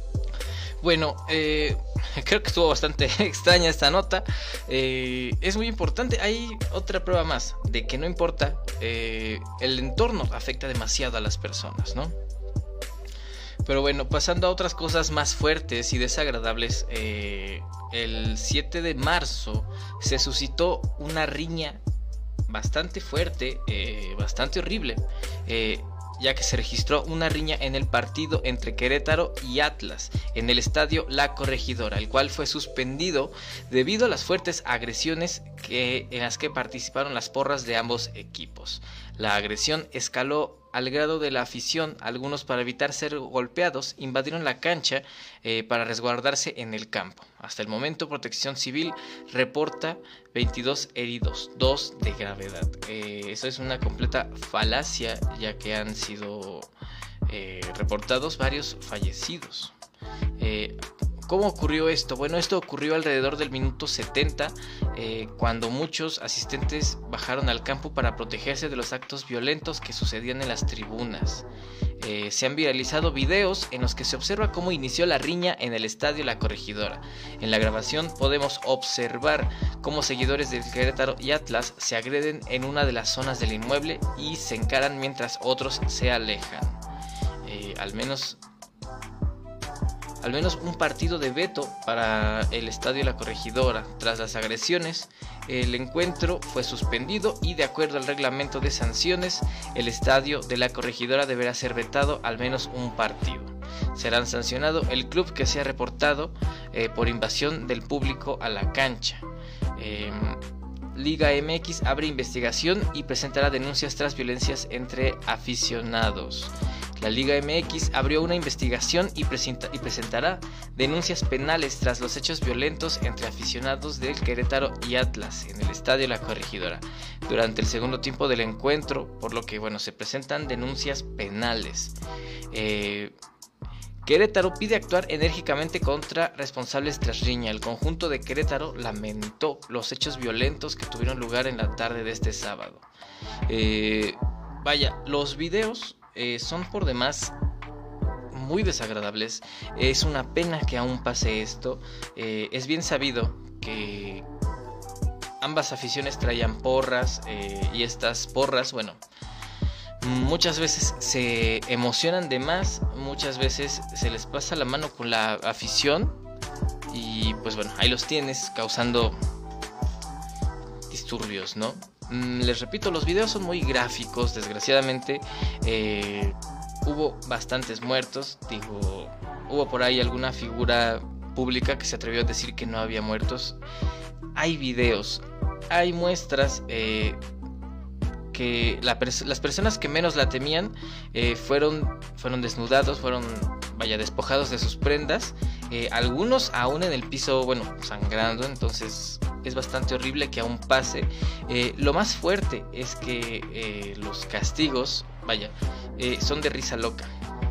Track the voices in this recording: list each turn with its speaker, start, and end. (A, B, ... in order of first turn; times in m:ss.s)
0:00.8-0:12.1 A
0:13.7-0:21.8 A
0:22.5-0:56.7 A
0:57.3-0:59.7 A
1:00.4-1:11.5 A
1:12.0-1:26.8 A
1:27.4-1:28.4 A
1:30.2-1:50.4 A
1:51.0-2:12.0 A
2:12.5-2:13.1 A
2:14.0-2:22.9 A
2:23.5-2:27.3 A
2:28.3-2:34.3 A
2:35.4-2:39.0 A
2:40.0-2:46.2 A
2:46.9-2:49.2 A
2:50.9-3:03.6 A
3:04.4-3:07.2 A
3:08.3-3:27.1 A